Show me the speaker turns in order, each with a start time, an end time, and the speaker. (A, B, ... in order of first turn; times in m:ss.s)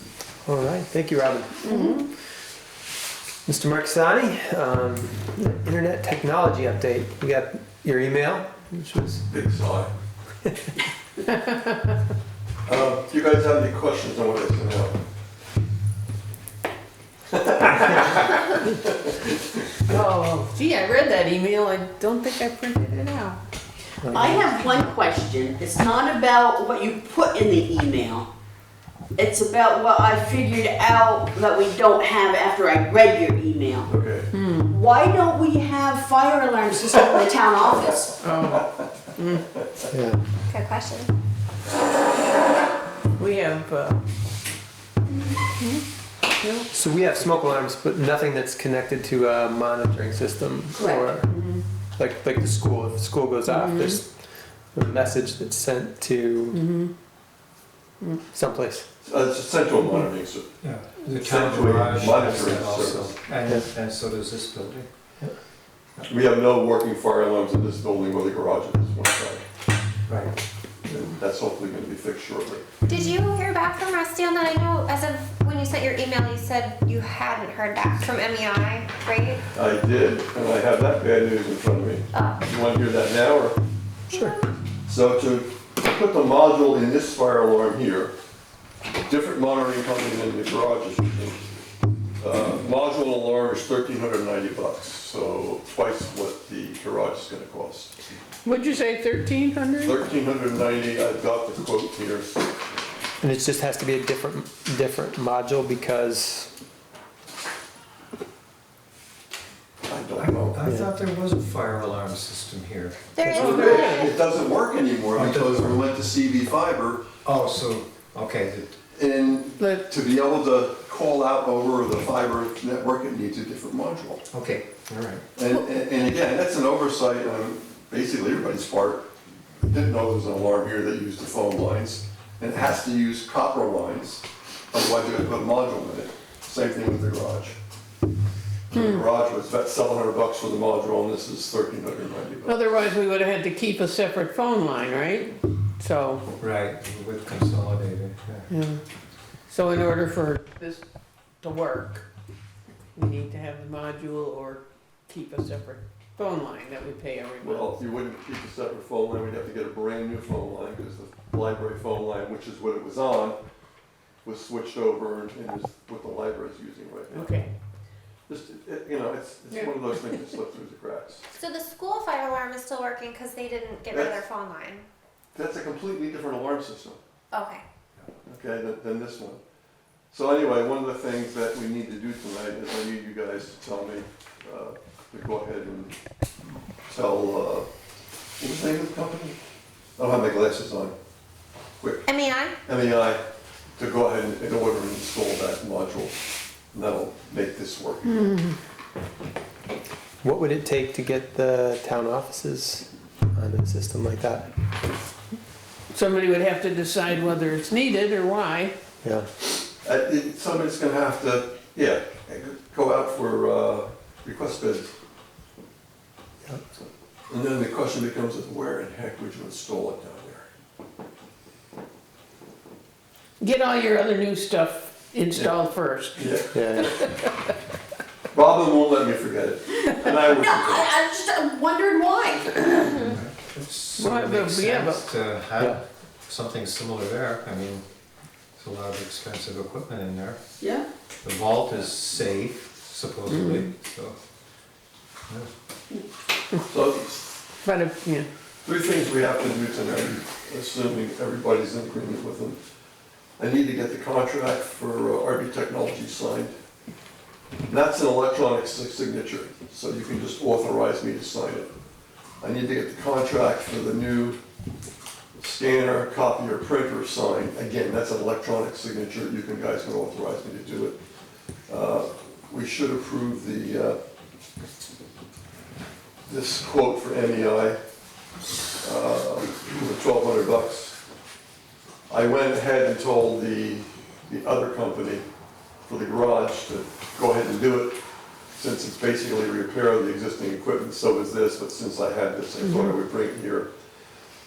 0:00.4-0:02.0 A
0:01.6-0:02.0 B
0:03.4-0:09.2 A
0:09.3-0:09.9 C
0:12.6-0:15.0 C
0:17.3-0:19.2 C
0:19.9-0:23.4 D
0:24.0-0:24.4 A
0:24.1-0:28.3 B
0:29.2-0:33.9 B
0:33.9-0:34.3 C
0:34.3-0:34.7 D
0:34.7-0:38.1 B
0:38.2-0:39.5 D
0:39.9-0:40.2 A
0:40.5-0:41.1 E
0:43.2-0:44.0 D
0:46.4-0:46.7 D
0:46.7-0:51.3 A
0:50.8-0:51.6 B
0:52.0-0:54.1 A
0:53.5-0:54.0 D
0:54.7-0:56.6 A
0:56.5-0:56.9 D
0:58.3-0:58.8 A
0:59.0-1:00.5 C
1:00.6-1:04.9 F
1:01.1-1:03.2 C
1:06.1-1:09.4 C
1:10.1-1:10.3 F
1:10.8-1:12.7 C
1:12.9-1:19.4 E
1:19.5-1:23.6 C
1:22.1-1:22.4 E
1:24.1-1:24.5 E
1:24.8-1:28.1 C
1:29.0-1:31.4 C
1:32.2-1:37.9 C
1:38.4-1:40.0 D
1:39.8-1:42.4 C
1:43.2-1:46.5 A
1:49.9-1:50.6 C
1:50.5-1:53.1 F
1:50.6-1:50.9 A
1:53.1-1:54.1 E
1:53.2-1:57.0 C
1:53.3-1:54.2 D
1:55.2-1:55.8 F
1:57.2-1:58.8 F
1:58.9-2:04.2 C
1:59.6-1:59.8 D
2:04.3-2:05.2 F
2:05.3-2:09.1 C
2:09.6-2:17.6 C
2:18.7-2:22.6 C
2:18.7-2:19.0 D
2:22.4-2:26.2 D
2:26.4-2:28.5 F
2:28.5-2:28.8 D
2:29.5-2:30.8 D
2:31.4-2:32.0 D
2:33.0-2:37.8 D
2:37.4-2:43.4 C
2:44.2-2:47.4 C
2:47.1-2:47.5 D
2:48.3-2:51.2 C
2:49.5-2:50.1 D
2:51.3-2:54.8 E
2:53.9-2:54.2 C
2:55.3-2:57.0 C
2:57.3-2:57.6 E
2:58.2-2:59.4 C
3:00.1-3:06.0 C
3:06.9-3:07.7 C
3:08.4-3:09.4 C
3:10.0-3:10.9 C
3:11.8-3:12.1 C
3:12.0-3:12.6 E
3:12.6-3:13.2 C
3:13.8-3:16.1 C
3:16.7-3:18.3 C
3:18.0-3:18.6 D
3:20.2-3:24.5 A
3:25.9-3:28.7 D
3:29.0-3:29.3 A
3:29.8-3:34.9 C
3:36.8-3:40.5 C
3:43.4-3:47.3 D
3:45.3-3:45.6 C
3:46.1-3:46.5 C
3:46.5-3:46.9 A
3:48.3-3:50.9 C
3:49.9-3:53.1 B
3:53.0-3:57.8 F
3:54.0-3:55.0 D
3:58.6-4:00.4 F
4:00.6-4:00.9 B
4:01.2-4:04.2 F
4:03.3-4:03.7 D
4:06.7-4:07.4 C
4:07.6-4:08.3 D
4:08.6-4:12.6 C
4:13.4-4:16.6 C
4:17.6-4:21.7 C
4:22.4-4:24.4 C
4:25.4-4:31.0 C
4:31.7-4:34.0 C
4:36.2-4:37.8 C
4:38.8-4:41.0 C
4:42.1-4:45.2 C
4:45.9-4:48.0 C
4:48.6-4:53.7 C
4:52.6-4:53.0 D